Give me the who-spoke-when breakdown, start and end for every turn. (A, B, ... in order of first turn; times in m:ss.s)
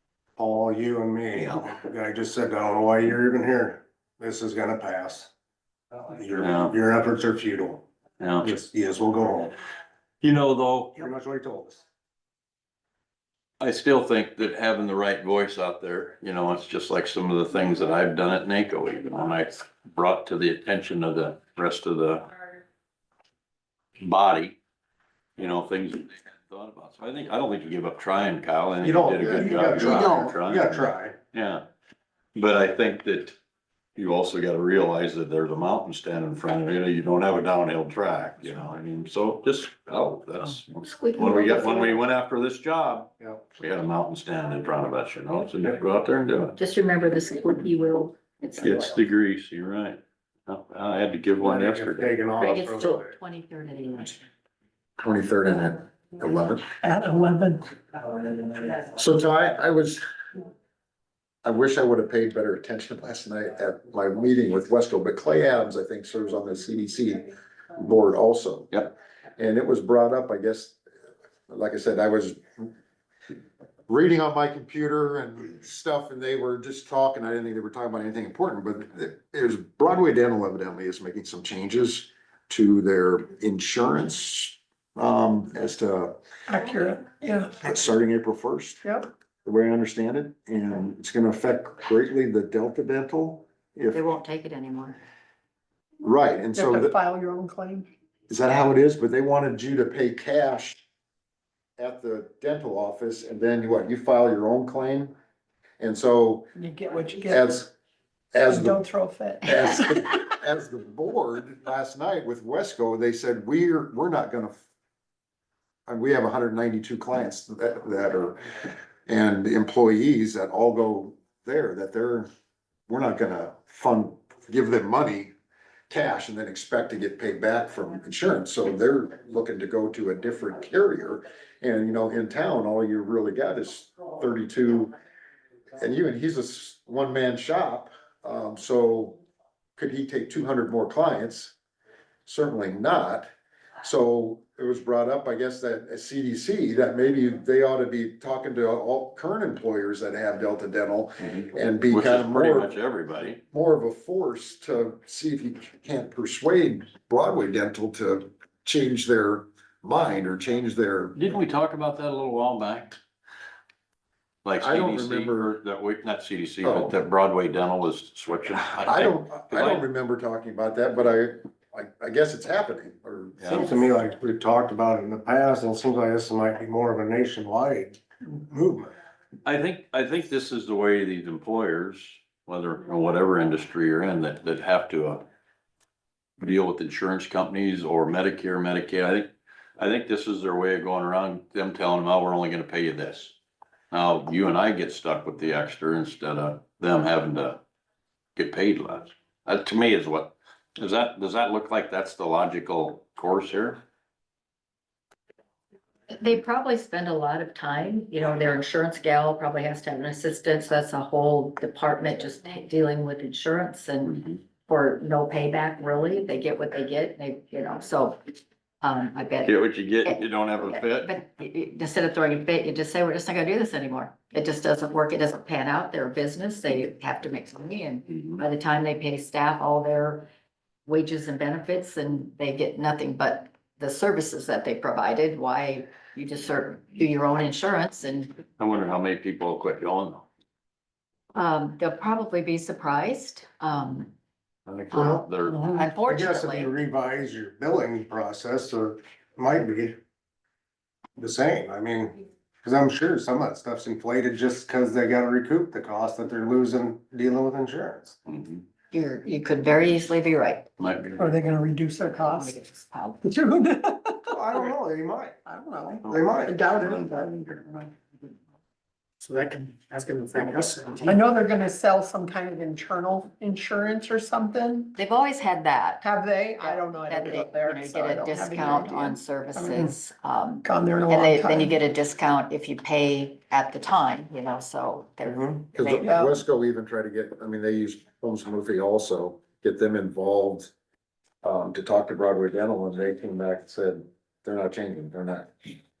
0:00.4-0:05.3 A
0:05.9-0:07.8 A
0:06.4-0:06.7 B
0:08.2-0:08.5 B
0:08.4-0:09.5 A
0:10.2-0:11.0 B
0:11.0-0:11.8 A
0:13.6-0:22.3 B
0:24.0-0:24.6 B
0:25.4-0:31.6 B
0:28.8-0:31.2 A
0:32.3-0:33.4 B
0:34.0-0:46.5 B
0:40.8-0:42.0 C
0:46.6-0:49.0 C
0:48.6-0:52.1 B
0:51.4-0:53.1 A
0:52.4-0:54.2 C
0:55.0-0:56.6 D
0:56.8-0:57.7 E
0:58.3-1:00.0 D
1:01.4-1:10.8 D
1:11.5-1:12.7 D
1:13.9-1:26.2 D
1:26.5-1:27.6 E
1:27.5-1:28.9 D
1:29.4-1:34.0 D
1:33.9-1:35.0 C
1:36.0-1:36.9 D
1:36.5-1:37.9 E
1:38.3-1:40.8 D
1:41.8-1:45.1 D
1:45.8-1:46.5 D
1:46.6-1:47.4 E
1:47.2-1:47.7 D
1:48.3-1:48.8 D
1:48.5-1:50.0 E
1:49.4-1:54.6 D
1:55.9-2:02.3 D
2:02.9-2:05.3 D
2:05.9-2:14.9 D
2:15.8-2:19.2 D
2:19.8-2:21.5 D
2:22.2-2:23.3 D
2:23.8-2:32.8 D
2:31.2-2:33.4 B
2:33.5-2:41.2 D
2:41.2-2:43.0 B
2:44.4-2:49.8 B
2:44.6-2:45.5 D
2:46.6-2:47.0 D
2:48.8-2:53.9 D
2:53.4-2:53.7 B
2:53.5-2:58.9 A
2:59.4-3:05.2 B
3:06.4-3:13.3 B
3:13.9-3:17.6 B
3:18.4-3:23.8 B
3:26.1-3:39.5 C
3:39.4-3:41.1 B
3:40.0-3:50.3 C
3:50.8-3:58.4 C
3:58.6-4:00.2 B
4:01.3-4:04.1 C
4:04.6-4:05.6 B
4:04.9-4:10.0 A
4:05.6-4:06.7 C
4:11.2-4:18.1 A
4:18.3-4:18.6 B
4:18.9-4:20.7 C
4:20.8-4:21.3 B
4:21.2-4:22.5 E
4:22.2-4:23.2 C
4:23.2-4:24.4 E
4:24.3-4:25.4 A
4:25.4-4:27.9 E
4:26.0-4:26.6 A
4:26.7-4:27.0 B
4:29.2-4:31.2 F
4:31.0-4:34.9 E
4:34.9-4:36.0 C
4:36.0-4:39.9 E
4:36.6-4:46.2 C
4:40.6-4:41.7 E
4:45.7-4:50.7 D
4:46.0-4:46.4 E
4:51.4-4:55.7 D